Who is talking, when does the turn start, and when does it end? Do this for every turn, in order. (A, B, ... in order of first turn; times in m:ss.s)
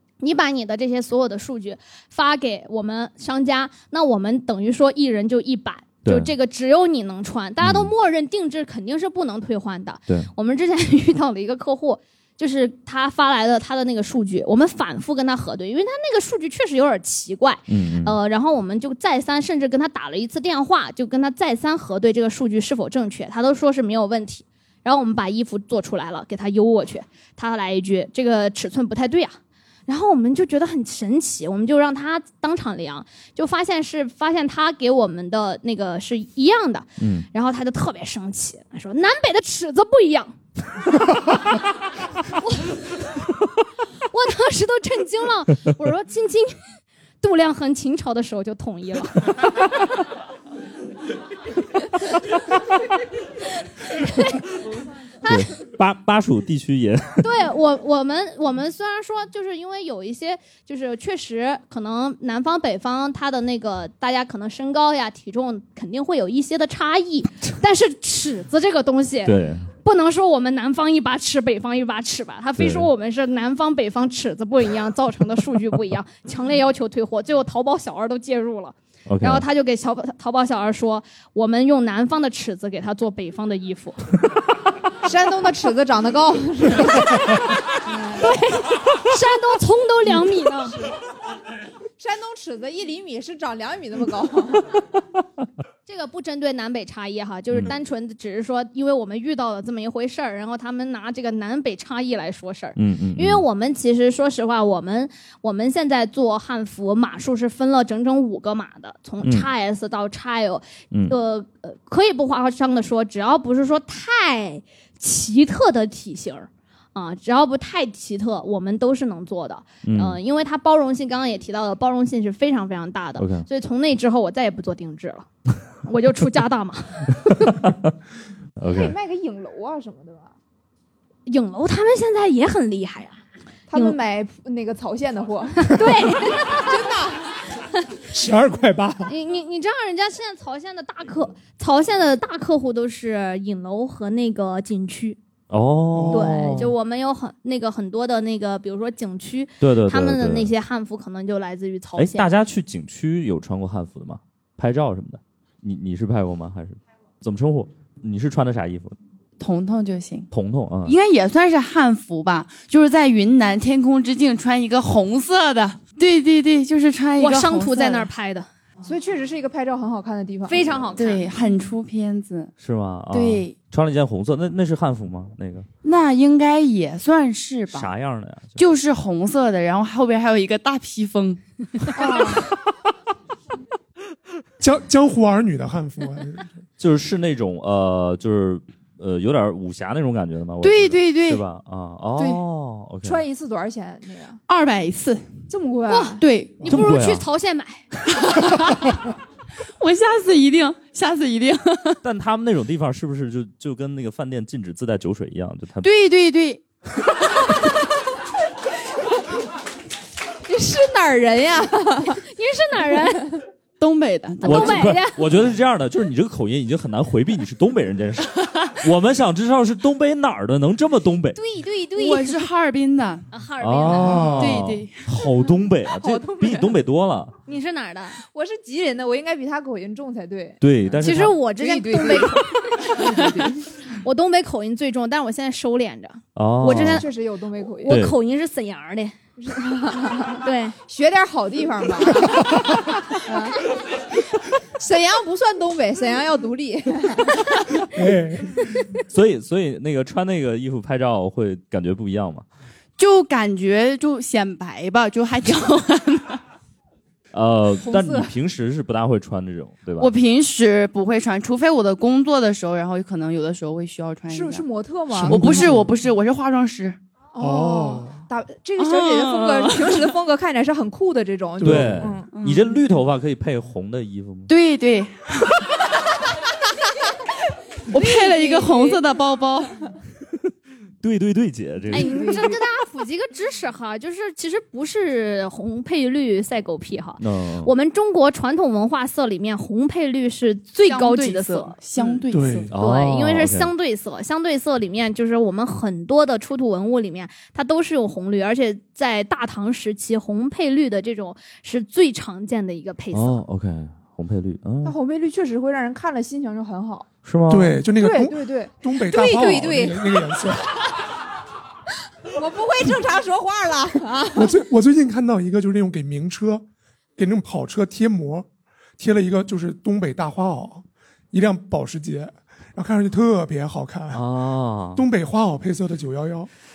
0:00.2-0:40.4 A
0:06.0-0:06.3 B
0:07.6-0:07.9 B
0:17.7-0:18.2 B
0:37.0-0:37.3 B
0:42.3-0:43.0 A
0:44.1-0:46.6 A
0:47.2-0:49.9 A
0:53.9-0:54.5 A
0:55.2-0:55.5 A
0:55.2-0:57.2 B
0:57.2-1:24.0 A
1:09.2-1:09.7 B
1:12.6-1:12.9 B
1:19.0-1:19.4 B
1:25.0-1:28.4 C
1:28.2-1:30.8 A
1:32.0-1:34.8 C
1:35.9-2:07.6 A
1:42.8-1:43.4 B
1:49.2-1:49.5 B
1:59.8-2:00.2 B
2:03.2-2:03.4 B
2:07.5-2:07.8 B
2:08.6-2:09.0 B
2:08.7-2:10.3 C
2:11.3-2:13.2 A
2:13.7-2:17.3 C
2:15.6-2:16.9 A
2:18.1-2:19.1 D
2:19.0-2:25.2 A
2:25.5-2:26.7 B
2:25.9-2:26.4 D
2:26.1-2:32.3 A
2:29.6-2:30.5 B
2:32.0-2:38.9 B
2:39.4-2:40.3 E
2:40.3-2:41.0 B
2:40.8-2:48.1 E
2:47.2-2:48.5 A
2:48.8-2:50.7 C
2:50.5-2:51.2 A
2:51.0-2:52.5 E
2:52.6-2:55.7 B
2:53.1-2:53.5 E
2:55.8-2:57.9 E
2:57.7-2:58.6 B
2:58.6-3:02.4 E
3:01.9-3:02.4 C
3:04.6-3:06.5 D
3:06.8-3:13.2 B
3:10.6-3:11.4 E
3:12.2-3:12.4 C
3:13.0-3:14.4 C
3:14.5-3:15.3 E
3:15.5-3:16.2 C
3:15.9-3:17.8 A
3:16.2-3:16.7 E
3:16.6-3:17.2 B
3:18.2-3:18.9 E
3:19.8-3:22.0 E
3:22.0-3:25.9 B
3:25.8-3:26.6 E
3:30.4-3:32.2 C
3:32.2-3:33.4 A
3:33.8-3:34.8 E
3:34.4-3:35.2 A
3:34.4-3:41.4 B
3:41.4-3:42.3 C
3:41.9-3:43.3 E
3:43.3-3:44.4 A
3:43.6-3:47.3 B
3:43.9-3:44.6 D
3:44.4-3:45.1 E
3:46.0-3:46.7 C
3:47.5-3:48.2 A
3:48.2-3:53.6 C
3:50.6-3:51.4 B
3:51.0-3:57.1 A
3:56.3-3:57.1 B
3:56.7-3:58.0 C
3:57.8-3:59.1 A
3:57.9-3:58.2 B
3:59.4-4:02.6 C
4:00.4-4:00.8 A
4:02.4-4:02.8 D
4:03.1-4:03.7 C
4:04.8-4:07.8 C
4:07.9-4:08.7 D
4:09.1-4:12.4 B
4:13.0-4:16.4 E
4:17.3-4:20.1 B
4:17.8-4:18.3 C
4:20.0-4:24.7 E
4:24.3-4:25.7 C
4:25.1-4:25.9 D
4:25.3-4:27.0 E
4:27.3-4:32.3 C
4:27.4-4:28.2 D
4:28.8-4:30.1 E
4:31.6-4:32.2 D
4:31.6-4:34.5 B
4:32.2-4:32.8 E
4:34.5-4:35.6 E
4:37.9-4:39.8 E
4:37.9-4:39.0 C
4:41.0-4:42.4 B
4:41.9-4:51.8 A
4:41.9-4:42.6 C
4:47.2-4:47.7 B
4:50.9-4:52.7 E
4:52.3-4:52.7 D
4:52.7-4:53.7 B
4:52.8-5:03.4 A
5:03.1-5:05.0 B
5:04.8-5:07.1 C
5:07.2-5:07.8 B
5:07.5-5:10.8 D
5:08.0-5:10.3 C
5:12.3-5:14.5 C
5:14.3-5:16.6 D
5:17.2-5:18.5 D
5:19.0-5:24.2 D
5:24.1-5:25.0 B
5:24.9-5:26.5 D